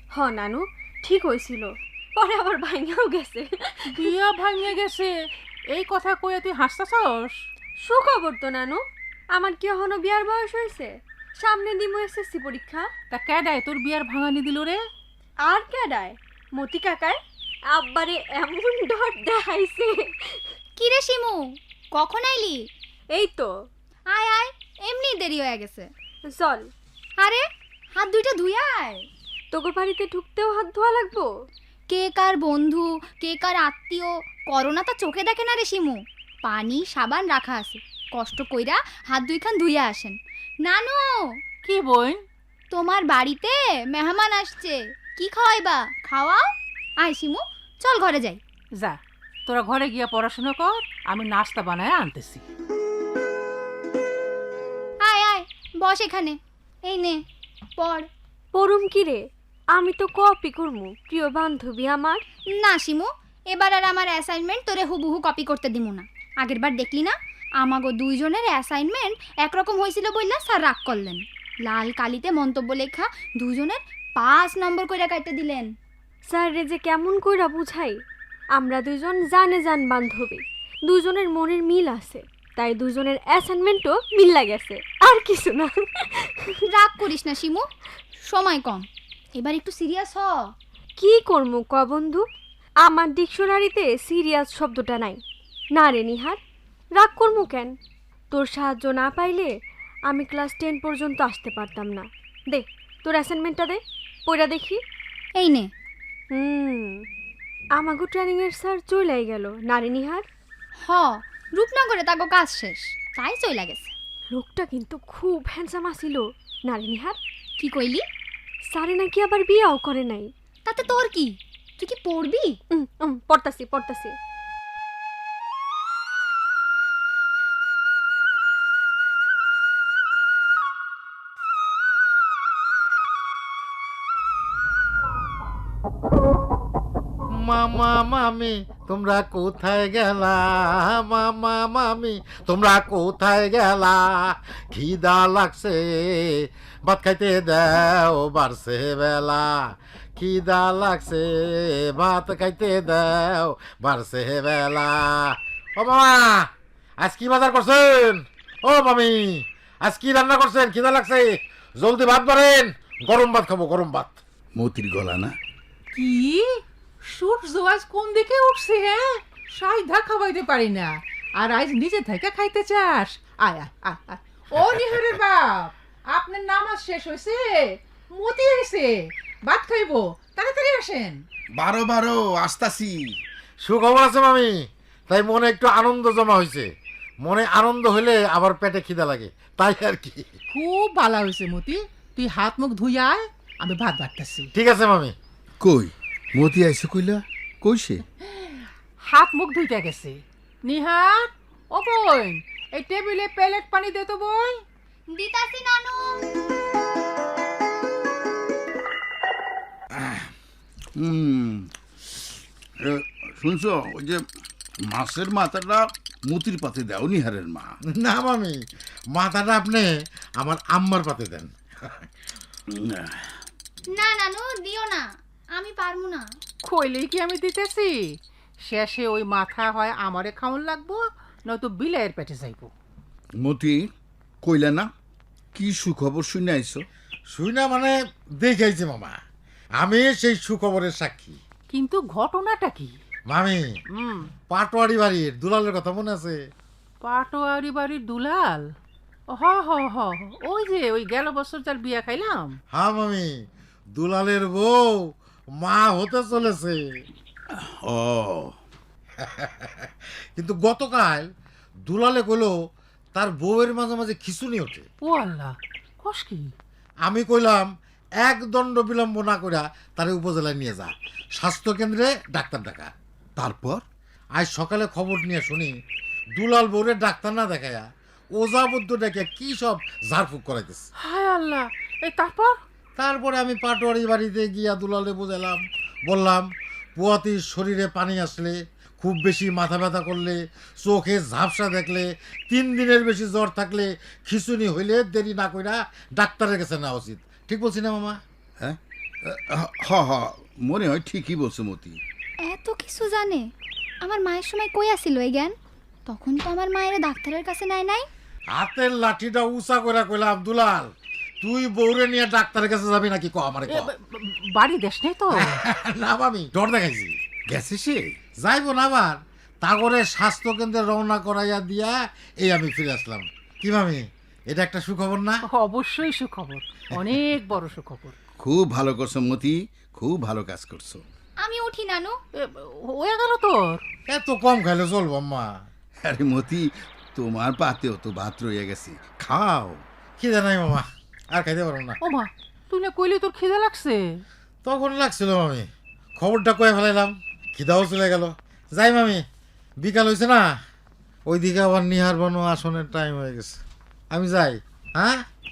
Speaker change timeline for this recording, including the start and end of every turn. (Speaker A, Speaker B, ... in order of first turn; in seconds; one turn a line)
Speaker A: 0.1-4.1
Speaker B: 3.9-5.1
Speaker B: 5.7-7.3
Speaker A: 7.8-8.8
Speaker A: 9.3-12.9
Speaker B: 13.1-14.8
Speaker A: 15.4-17.2
Speaker A: 17.7-20.5
Speaker C: 20.8-21.4
Speaker C: 21.9-22.6
Speaker A: 23.1-23.5
Speaker C: 24.1-25.9
Speaker A: 26.3-26.7
Speaker C: 27.9-29.1
Speaker A: 29.5-31.3
Speaker C: 31.9-41.0
Speaker B: 41.6-42.2
Speaker C: 42.7-46.4
Speaker C: 47.0-48.4
Speaker B: 48.8-52.4
Speaker C: 55.0-57.2
Speaker C: 57.8-58.1
Speaker A: 58.5-62.2
Speaker C: 62.6-75.7
Speaker A: 76.3-78.0
Speaker A: 78.5-86.6
Speaker C: 86.8-87.7
Speaker C: 88.3-88.9
Speaker C: 89.4-90.5
Speaker A: 91.0-92.2
Speaker A: 92.8-95.2
Speaker A: 95.8-96.4
Speaker A: 97.0-97.8
Speaker A: 98.3-99.5
Speaker A: 100.1-104.8
Speaker C: 105.4-105.7
Speaker A: 106.3-107.0
Speaker A: 107.8-110.2
Speaker C: 110.8-113.9
Speaker A: 114.3-117.2
Speaker C: 117.6-118.0
Speaker A: 118.7-120.3
Speaker C: 120.7-122.6
Speaker A: 122.7-124.2
Speaker D: 137.4-149.6
Speaker D: 150.2-156.5
Speaker D: 157.0-164.2
Speaker E: 164.6-165.4
Speaker B: 165.9-181.2
Speaker E: 181.5-183.2
Speaker D: 183.7-184.5
Speaker D: 185.1-186.7
Speaker D: 187.2-190.3
Speaker B: 190.5-194.5
Speaker D: 194.6-195.1
Speaker E: 195.6-198.0
Speaker B: 199.1-204.6
Speaker C: 205.1-206.0
Speaker E: 211.0-211.7
Speaker E: 212.8-214.2
Speaker E: 214.9-217.7
Speaker D: 218.0-218.6
Speaker D: 219.1-222.0
Speaker E: 222.7-223.2
Speaker C: 223.9-226.2
Speaker B: 226.7-228.1
Speaker B: 228.7-232.7
Speaker E: 233.4-233.9
Speaker E: 234.4-234.9
Speaker E: 235.6-236.9
Speaker D: 237.3-239.2
Speaker D: 239.8-241.4
Speaker B: 241.7-242.9
Speaker D: 243.3-243.7
Speaker B: 244.0-244.3
Speaker D: 244.5-246.4
Speaker B: 247.0-248.7
Speaker B: 249.3-252.6
Speaker D: 252.8-253.3
Speaker D: 254.0-254.9
Speaker D: 255.6-256.8
Speaker E: 257.6-258.5
Speaker D: 259.4-261.3
Speaker D: 261.9-262.5
Speaker D: 263.1-264.9
Speaker B: 265.0-266.5
Speaker D: 267.1-267.6
Speaker D: 268.2-272.9
Speaker E: 273.4-273.8
Speaker D: 274.4-275.8
Speaker D: 276.4-280.9
Speaker B: 281.0-282.6
Speaker D: 283.0-298.2
Speaker E: 298.6-302.0
Speaker C: 302.5-303.4
Speaker C: 304.0-305.5
Speaker C: 306.1-308.1
Speaker D: 308.6-310.9
Speaker D: 311.4-313.9
Speaker B: 313.7-315.6
Speaker D: 315.4-325.4
Speaker B: 325.5-328.1
Speaker E: 328.4-331.0
Speaker C: 331.4-332.1
Speaker B: 332.4-333.8
Speaker D: 334.1-335.5
Speaker E: 336.0-339.8
Speaker D: 340.2-342.0
Speaker B: 342.0-344.2
Speaker D: 344.6-349.2
Speaker D: 349.8-350.4
Speaker D: 351.3-353.6
Speaker D: 354.1-355.1